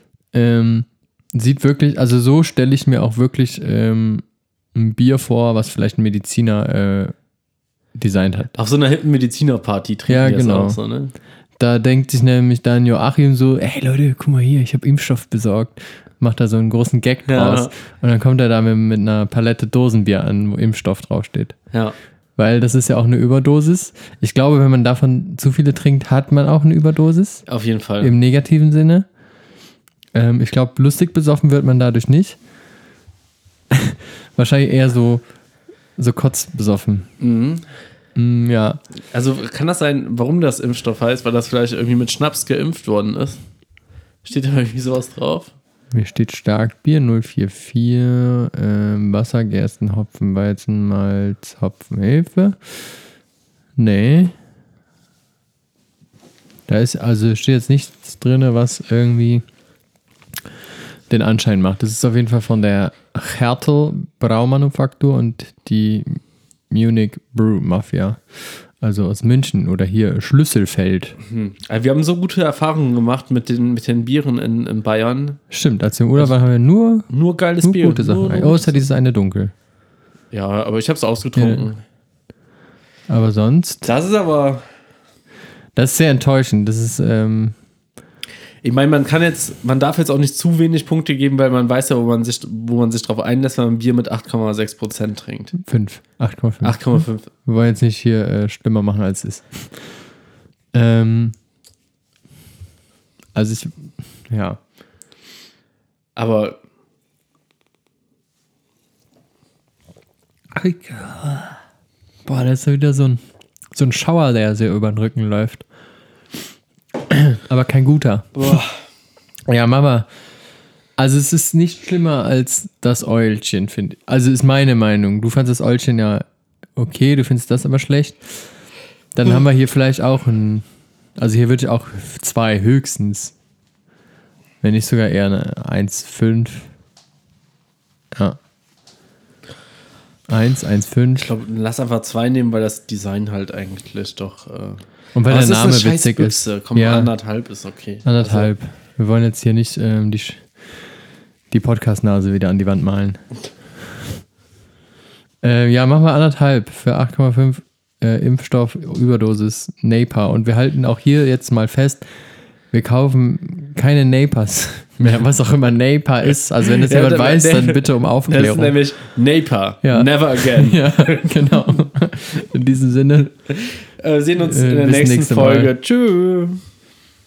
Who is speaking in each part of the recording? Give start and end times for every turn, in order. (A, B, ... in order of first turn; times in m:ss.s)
0:00.3-0:07.1 A
0:08.0-0:08.5 A
0:08.6-0:11.1 B
0:10.1-0:10.8 A
0:11.6-0:21.6 A
0:17.3-0:17.7 B
0:22.4-0:27.4 A
0:27.4-0:28.1 B
0:28.0-0:29.0 A
0:30.1-0:32.4 A
0:33.7-0:35.2 A
0:36.0-0:37.1 A
0:37.2-0:37.6 B
0:38.2-0:38.8 A
0:39.1-0:43.4 B
0:44.2-0:45.5 B
0:45.9-0:52.8 A
0:53.8-0:54.3 A
0:56.7-0:59.4 A
1:01.1-1:11.2 A
1:11.2-1:15.4 B
1:15.5-1:17.1 A
1:17.1-1:18.8 B
1:17.6-1:19.5 A
1:20.3-1:21.8 B
1:21.3-1:21.7 A
1:23.1-1:23.9 A
1:23.8-1:24.6 B
1:25.8-1:27.5 A
1:28.6-1:35.5 B
1:35.6-1:39.7 A
1:36.6-1:37.3 B
1:40.7-1:41.3 A
1:43.3-1:44.6 A
1:46.2-1:46.6 B
1:50.6-1:51.5 B
1:52.2-1:53.2 A
1:53.7-1:55.6 A
1:57.1-1:58.6 A
1:58.3-1:58.7 B
1:59.5-2:00.1 A
2:01.0-2:06.2 A
2:06.8-2:08.4 A
2:09.1-2:10.6 A
2:11.2-2:13.3 A
2:14.6-2:16.7 A
2:20.3-2:21.3 A
2:21.1-2:28.5 B
2:25.1-2:27.1 A
2:28.0-2:30.4 A
2:31.5-2:33.2 A
2:35.4-2:42.0 A
2:42.7-2:48.8 A
2:46.3-2:51.7 B
2:49.8-2:53.3 A
2:53.5-2:56.6 B
2:54.4-2:55.7 A